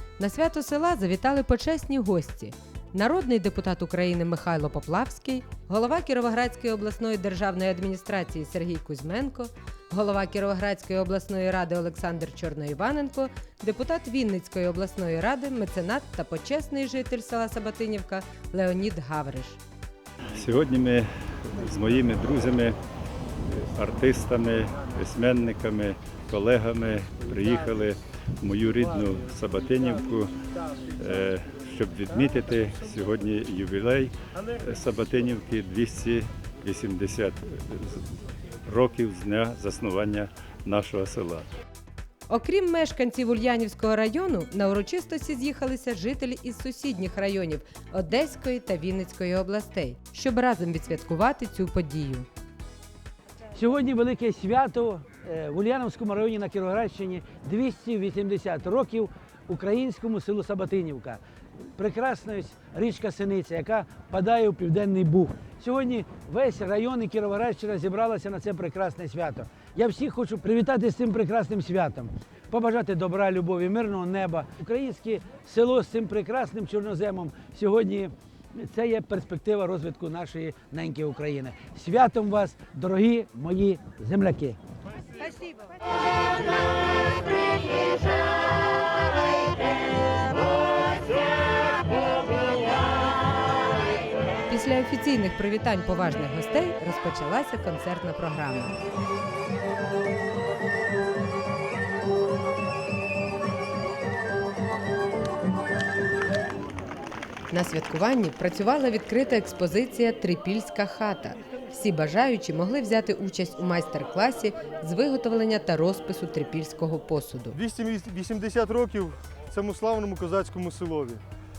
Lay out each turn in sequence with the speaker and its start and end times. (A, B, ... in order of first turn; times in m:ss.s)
0:00.2-0:19.6 A
0:20.3-0:22.8 B
0:23.5-0:30.3 B
0:31.0-0:38.0 B
0:38.7-0:41.4 B
0:42.3-0:52.3 A
0:53.5-1:01.2 C
1:01.8-1:24.6 C
1:34.5-1:38.8 A
1:47.5-1:57.6 A
1:57.5-2:01.2 D